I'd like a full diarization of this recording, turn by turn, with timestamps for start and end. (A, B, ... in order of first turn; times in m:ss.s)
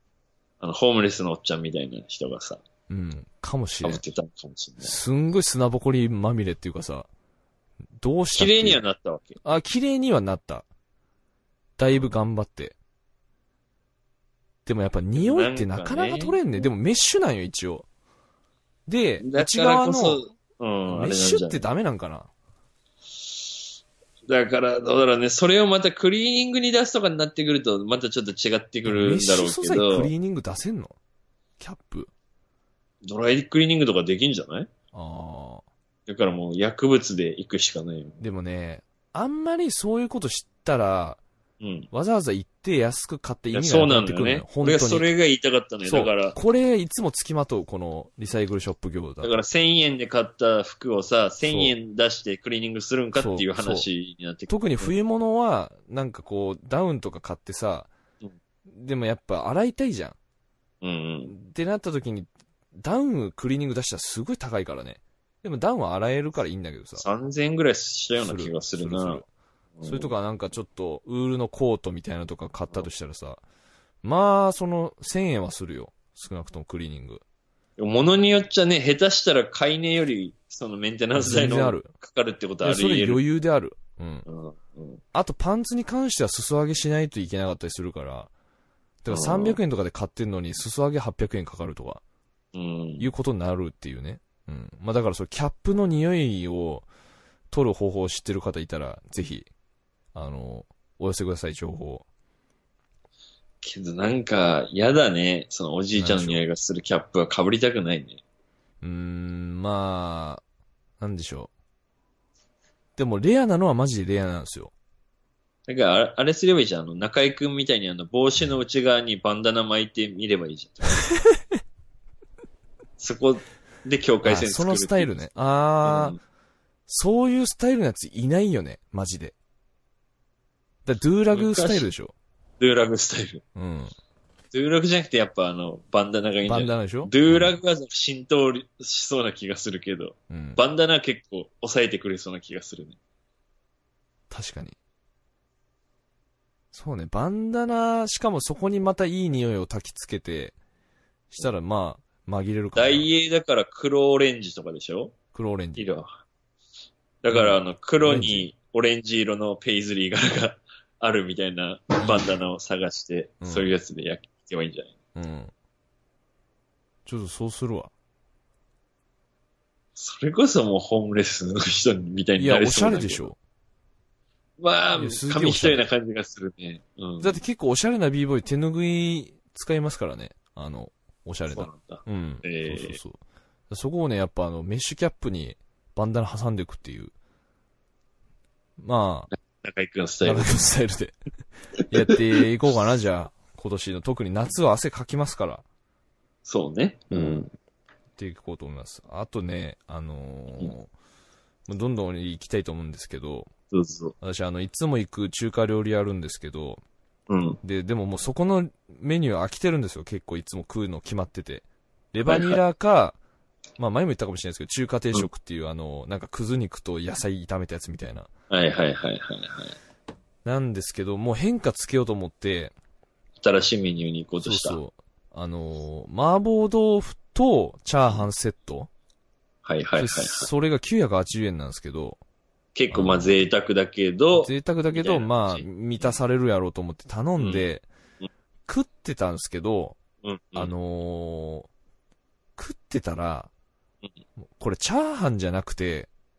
0:00.6-0:02.6 A
0:02.9-0:04.0 B
0:03.8-0:04.9 A
0:04.8-0:07.1 B
0:08.0-0:08.8 B
0:08.3-0:09.4 A
0:09.4-0:10.7 B
0:11.8-0:12.8 B
0:14.7-0:17.9 B
0:15.2-0:16.4 A
0:18.9-0:20.3 B
0:19.2-0:21.6 A
0:20.9-0:22.3 B
0:24.3-0:30.1 A
0:28.9-0:31.0 B
0:31.6-0:32.1 B
0:33.0-0:34.7 A
0:34.9-0:35.6 B
0:36.1-0:38.2 A
0:38.2-0:41.2 B
0:41.6-0:41.9 A
0:41.9-0:45.1 B
0:43.5-0:46.4 A
0:45.8-0:49.3 B
0:49.2-0:54.9 A
0:51.4-0:51.7 B
0:53.2-0:53.9 B
0:54.5-0:57.9 B
0:58.7-1:00.2 B
1:00.8-1:01.3 A
1:01.3-1:07.0 B
1:07.0-1:09.2 A
1:08.2-1:09.3 B
1:09.8-1:10.1 A
1:09.8-1:13.4 B
1:14.0-1:17.2 B
1:17.8-1:23.2 A
1:21.2-1:21.9 B
1:22.6-1:24.3 B
1:24.3-1:25.0 A
1:25.1-1:28.3 B
1:29.0-1:32.0 B
1:29.1-1:29.6 A
1:32.5-1:33.1 A
1:33.0-1:36.9 B
1:37.5-1:39.5 B
1:40.1-1:42.1 B
1:43.6-1:48.2 A
1:46.0-1:46.4 B
1:48.8-1:50.4 B
1:51.0-1:51.5 B
1:53.0-1:54.7 B
1:55.7-2:01.1 A
2:01.2-2:01.4 B
2:03.0-2:05.2 A
2:04.2-2:06.2 B
2:05.8-2:06.2 A
2:06.9-2:09.3 B
2:10.8-2:12.1 B
2:11.3-2:11.9 A
2:12.6-2:13.4 A
2:13.6-2:13.9 B
2:14.5-2:23.0 A
2:16.4-2:17.6 B
2:20.3-2:20.6 B
2:24.3-2:24.8 B
2:26.7-2:30.6 B
2:31.3-2:33.1 B
2:32.8-2:35.2 A
2:35.3-2:35.8 B
2:35.8-2:36.1 A
2:37.2-2:44.9 A
2:37.3-2:38.5 B
2:42.0-2:42.3 B
2:43.4-2:43.7 B
2:45.2-2:45.5 B
2:47.1-2:47.9 B
2:50.0-2:53.2 A
2:52.4-2:53.4 B
2:54.6-2:57.4 A
2:55.0-2:55.8 B
2:57.2-3:03.2 B
3:01.5-3:03.0 A
3:03.7-3:07.1 B
3:08.8-3:09.3 B
3:09.5-3:10.6 A
3:10.2-3:11.2 B
3:11.9-3:15.6 B
3:16.5-3:17.5 A
3:17.1-3:17.4 B
3:18.2-3:20.9 B
3:21.7-3:23.5 B
3:23.7-3:24.2 A
3:24.2-3:26.8 B
3:27.3-3:27.6 A
3:27.6-3:33.2 B
3:32.3-3:32.6 A
3:33.8-3:38.3 B
3:38.5-3:39.8 A
3:40.4-3:42.7 B
3:43.4-3:44.8 A
3:44.4-3:48.9 B
3:49.6-3:50.5 A
3:50.0-3:52.2 B
3:52.8-3:56.2 A
3:52.9-3:53.4 B
3:54.4-3:57.9 B
3:57.4-3:57.6 A
3:58.7-4:00.0 B
4:00.2-4:00.7 A
4:00.6-4:01.7 B
4:02.6-4:03.5 B
4:04.6-4:06.1 B